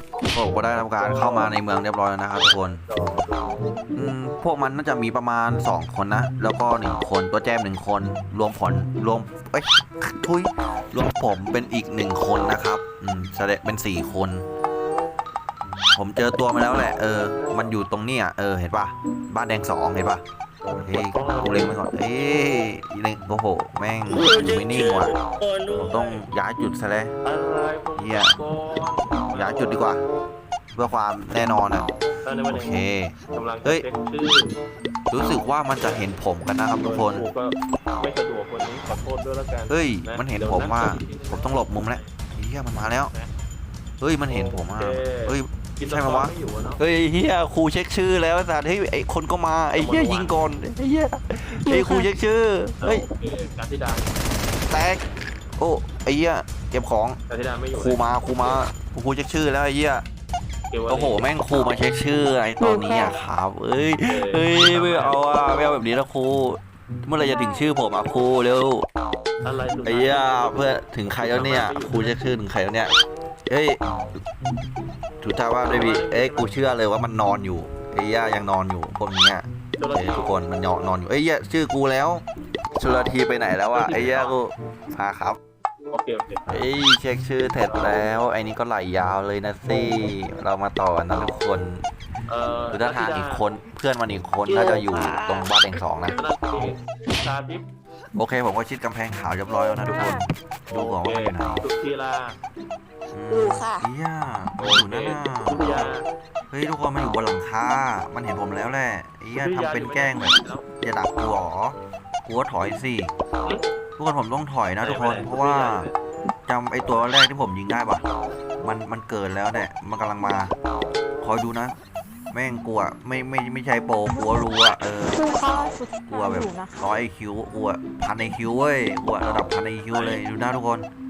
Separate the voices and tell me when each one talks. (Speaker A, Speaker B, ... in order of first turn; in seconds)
Speaker A: 0.3-2.9, 4.0-14.4, 15.9-20.2, 20.8-25.1, 25.7-27.2, 28.0-28.4, 29.3-30.0, 30.7-31.9, 32.5-33.9, 35.1-37.3, 39.7-43.1, 44.0-53.0, 54.7-55.0, 55.6-57.2, 57.7-60.0, 60.9-68.9, 69.8-72.9, 73.5-73.8, 75.2-85.4, 86.5-91.8, 92.7-96.2, 98.2-101.7, 103.1-105.9, 106.5-113.1, 114.0-115.9, 116.5-118.0, 118.6-120.5, 121.2-121.8, 122.3-125.2, 126.1-130.9
Speaker B: 1.0-1.5, 2.3-3.7, 17.4-17.7, 20.9-21.8, 24.2-26.2, 27.2-29.9, 32.2-34.5, 35.8-36.0, 36.8-42.1, 43.0-43.3, 44.3-46.8, 49.8-50.4, 52.8-54.1, 57.3-58.6, 60.7-61.3, 64.1-65.2, 69.4-72.2, 75.7-76.5, 79.8-80.4, 83.7-84.4, 85.9-86.7, 87.6-88.1, 92.3-93.4, 94.5-95.2, 96.2-97.7, 100.7-102.4, 104.6-106.1, 109.3-110.7, 114.8-115.9, 129.9-130.2
Speaker C: 51.7-52.1, 62.6-63.2, 67.2-67.8, 95.2-95.5, 99.7-100.2, 103.3-103.9, 124.1-126.9